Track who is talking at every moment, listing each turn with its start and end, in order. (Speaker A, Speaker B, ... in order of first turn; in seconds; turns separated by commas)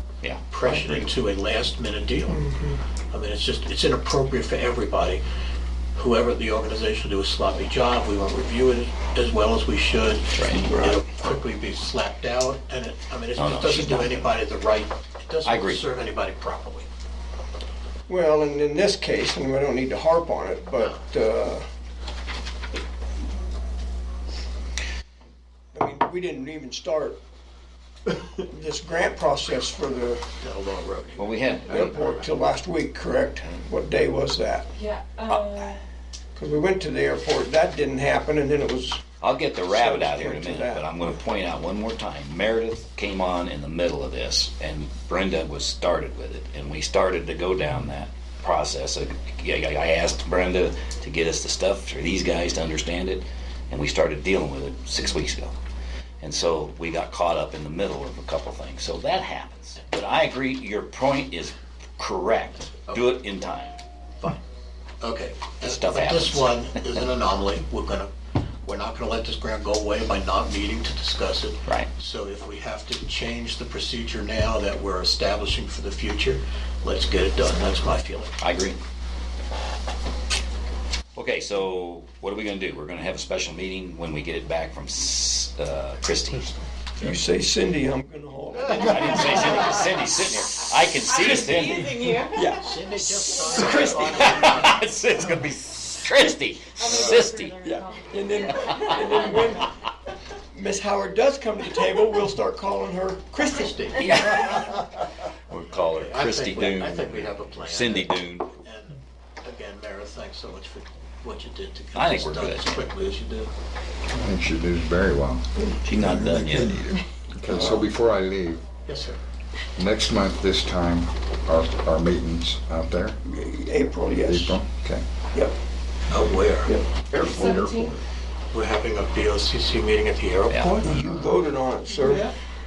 Speaker A: 0.2-1.1, Speaker B: 0.5-2.5, Speaker C: 2.4-2.8, Speaker B: 3.1-5.2, Speaker B: 5.9-16.9, Speaker A: 10.3-10.7, Speaker C: 10.6-11.0, Speaker A: 13.3-14.3, Speaker A: 15.4-15.8, Speaker C: 18.1-21.6, Speaker C: 25.7-27.2, Speaker C: 28.4-30.2, Speaker B: 30.4-32.2, Speaker A: 31.2-31.9, Speaker C: 31.7-34.7, Speaker D: 34.8-35.8, Speaker A: 35.3-35.7, Speaker C: 36.4-39.0, Speaker A: 39.2-55.5, Speaker C: 39.6-40.8, Speaker A: 56.2-63.8, Speaker B: 65.0-68.1, Speaker A: 65.6-66.7, Speaker B: 68.6-78.3, Speaker A: 78.4-78.8, Speaker A: 81.1-86.5, Speaker C: 87.0-89.9, Speaker A: 88.7-92.1, Speaker D: 91.1-92.4, Speaker C: 92.2-94.5, Speaker B: 92.5-94.8, Speaker A: 94.0-97.6, Speaker D: 96.8-98.0, Speaker E: 96.9-97.2, Speaker C: 97.6-99.8, Speaker A: 98.5-99.2, Speaker D: 98.6-99.4, Speaker C: 100.5-103.9, Speaker B: 103.5-104.3, Speaker A: 103.9-104.8, Speaker A: 105.5-108.5, Speaker B: 105.9-113.5, Speaker A: 111.9-112.8, Speaker E: 114.1-118.6, Speaker A: 115.8-117.0, Speaker B: 117.5-117.9, Speaker B: 118.9-119.2, Speaker E: 119.8-123.2, Speaker C: 123.2-124.6, Speaker E: 124.2-125.0, Speaker B: 126.1-126.7, Speaker C: 126.6-127.7, Speaker E: 127.2-128.0, Speaker D: 127.4-128.0, Speaker B: 128.5-130.9, Speaker A: 130.5-131.1, Speaker C: 130.8-132.3